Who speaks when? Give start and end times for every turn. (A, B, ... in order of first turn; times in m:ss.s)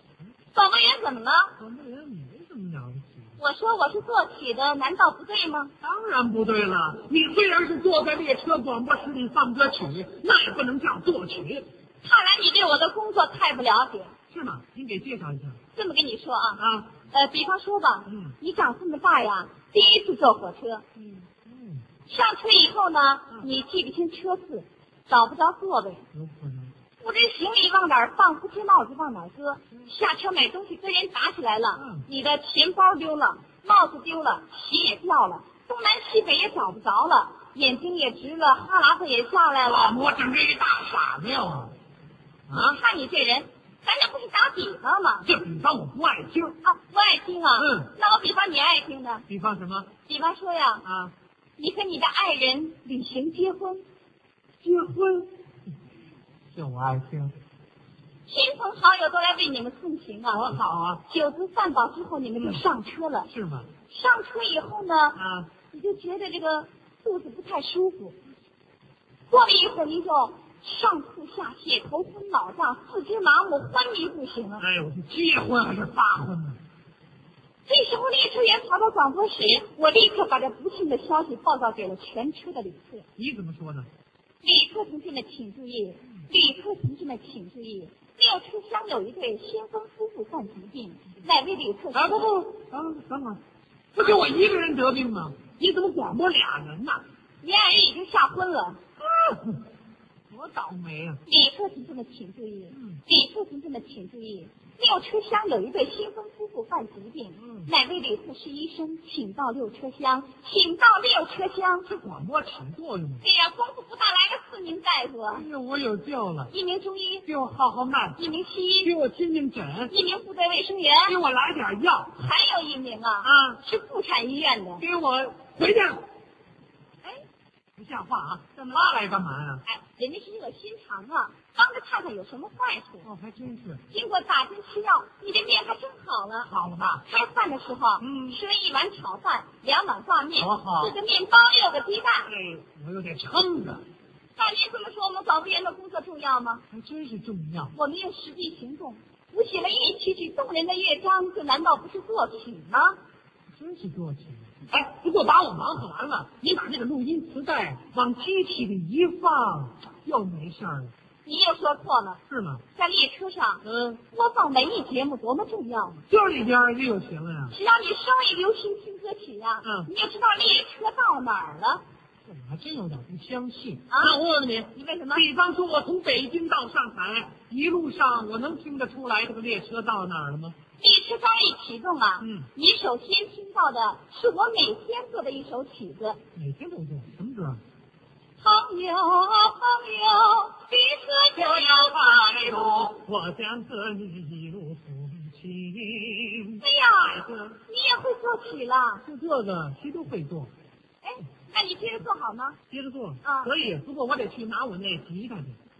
0:00.5-0:01.6 A
0:01.6-0:03.4 B
0:03.4-0:05.7 A
0:05.8-0:11.6 B
0:12.0-0:14.1 A
0:14.3-0:15.6 B
0:15.7-0:20.8 A
0:16.6-0:16.9 B
0:18.1-0:18.4 B
0:21.0-0:21.8 B
0:22.1-0:26.0 A
0:26.1-0:26.7 B
0:27.0-0:40.0 A
0:31.8-0:32.1 B
0:39.6-0:41.7 B
0:42.5-0:42.8 B
0:42.5-0:45.3 A
0:45.2-0:46.6 B
0:46.6-0:49.2 A
0:47.6-0:47.9 B
0:49.3-0:49.9 B
0:50.0-0:50.8 A
0:50.8-0:51.1 B
0:51.6-0:53.8 A
0:54.6-0:55.3 B
0:56.5-0:57.4 B
0:58.3-1:00.5 A
1:00.3-1:01.0 B
1:01.0-1:03.3 A
1:03.3-1:03.7 B
1:03.9-1:05.2 A
1:05.2-1:05.5 B
1:05.7-1:08.2 A
1:09.3-1:14.6 A
1:14.6-1:16.6 B
1:17.7-1:23.1 A
1:23.2-1:23.9 B
1:24.4-1:32.3 A
1:31.9-1:33.4 B
1:33.9-1:37.0 B
1:37.4-1:38.8 A
1:39.0-1:39.6 B
1:40.3-1:41.2 B
1:41.3-1:51.9 A
1:42.7-1:43.0 B
1:47.4-1:47.7 B
1:51.8-1:53.2 B
1:53.2-1:55.5 A
1:55.3-1:56.5 B
1:56.5-1:57.2 A
1:57.2-1:58.2 B
1:58.2-1:58.9 A
1:58.8-1:59.9 B
1:59.9-2:01.2 A
2:01.0-2:02.2 B
2:02.2-2:04.8 A
2:03.2-2:03.6 B
2:04.8-2:06.0 B
2:07.8-2:09.6 B
2:08.6-2:08.9 A
2:09.6-2:13.1 A
2:13.0-2:13.8 B
2:13.9-2:16.5 A
2:16.4-2:17.1 B
2:17.0-2:22.3 A
2:18.0-2:18.4 B
2:20.4-2:20.9 B
2:22.3-2:23.8 B
2:24.4-2:26.6 A
2:26.7-2:27.7 B
2:27.7-2:33.0 A
2:33.5-2:40.9 B
2:41.2-2:42.2 A
2:42.3-2:42.6 B
2:42.8-2:46.0 A
2:43.6-2:44.0 B
2:46.1-2:47.6 B
2:47.5-2:51.8 A
2:49.6-2:49.9 B
2:52.2-3:00.6 B
2:53.9-2:54.2 A
2:54.7-2:55.2 A
3:00.8-3:06.2 A
3:02.2-3:02.5 B
3:06.3-3:07.6 B
3:08.4-3:12.8 A
3:11.3-3:17.6 B
3:16.6-3:19.0 A
3:19.0-3:20.5 B
3:21.0-3:22.6 A
3:22.7-3:25.6 B
3:23.2-3:23.5 A